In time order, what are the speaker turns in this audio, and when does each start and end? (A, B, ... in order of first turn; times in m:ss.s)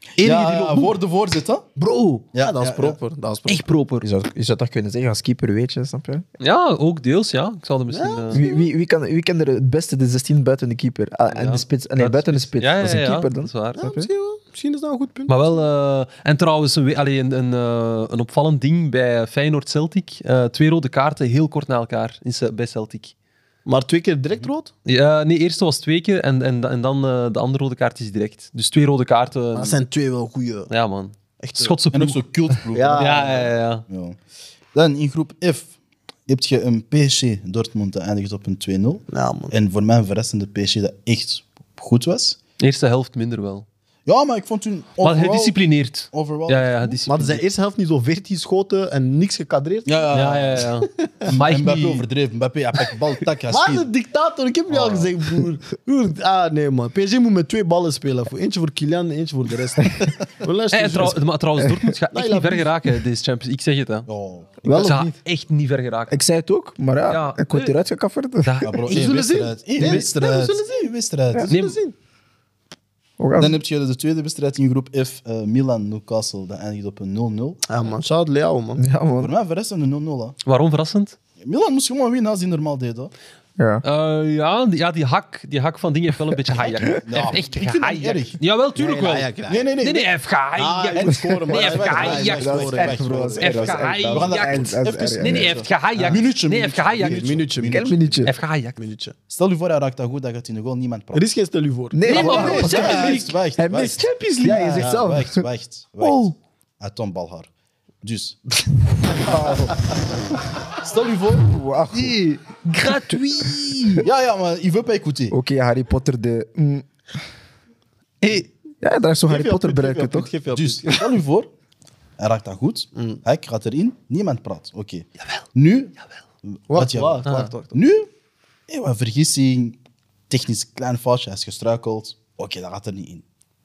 0:00.2-0:01.7 A
0:00.2-0:01.0 B
0:01.8-0:02.2 B
0:02.3-0:03.0 A
0:02.4-0:03.6 C
0:03.5-0:04.0 B
0:04.0-0:06.2 D
0:06.4-0:08.4 B
0:07.9-0:08.6 C
0:08.3-0:14.1 D
0:11.3-0:13.8 B
0:13.8-0:15.5 C
0:15.3-0:23.1 B
0:23.6-0:24.7 C
0:24.8-0:29.8 B
0:29.5-0:30.7 C
0:30.7-0:33.8 B
0:31.4-0:31.8 C
0:31.9-0:34.2 A
0:32.7-0:33.5 C
0:34.7-0:35.7 A
0:36.3-0:42.4 A
0:39.1-0:39.5 C
0:42.6-0:43.6 B
0:44.0-0:45.6 A
0:45.0-0:47.4 B
0:46.1-0:47.0 A
0:47.1-0:49.9 C
0:49.8-0:50.7 A
0:50.1-0:52.0 B
0:51.2-0:53.9 A
0:53.5-1:01.2 C
0:54.7-0:55.1 A
1:00.7-1:04.1 B
1:02.1-1:02.7 C
1:04.1-1:04.5 A
1:04.6-1:05.2 C
1:04.6-1:04.9 D
1:04.7-1:06.2 B
1:06.1-1:08.7 D
1:07.1-1:07.8 B
1:08.4-1:09.3 B
1:08.6-1:11.6 A
1:08.9-1:10.9 C
1:11.4-1:11.9 C
1:11.5-1:11.8 B
1:13.2-1:13.6 D
1:13.4-1:17.6 A
1:17.7-1:18.8 C
1:18.8-1:19.3 D
1:19.2-1:20.4 A
1:20.4-1:21.2 B
1:21.4-1:23.1 A
1:23.6-1:23.8 D
1:23.8-1:32.8 B
1:27.0-1:28.4 A
1:28.7-1:29.7 C
1:29.5-1:30.1 A
1:30.6-1:33.4 C
1:31.0-1:38.3 A
1:32.3-1:35.6 D
1:33.4-1:37.4 B
1:37.0-1:38.0 C
1:37.7-1:38.3 D
1:38.2-1:38.8 B
1:38.8-1:39.1 C
1:39.3-1:41.2 A
1:41.1-1:43.1 C
1:41.9-1:45.4 D
1:42.0-1:43.4 B
1:42.1-1:47.5 A
1:44.4-1:44.8 B
1:46.0-1:46.3 D
1:48.0-1:48.4 A
1:49.2-1:49.8 D
1:49.2-1:49.7 C
1:50.8-1:52.1 A
1:51.4-1:53.2 D
1:52.7-1:54.0 B
1:54.0-1:55.4 A
1:55.3-1:56.8 D
1:58.8-2:00.3 D
1:59.3-2:01.0 C
2:00.5-2:01.5 A
2:02.2-2:08.1 A
2:02.9-2:03.2 C
2:06.7-2:07.7 C
2:07.2-2:07.5 B
2:08.7-2:13.2 A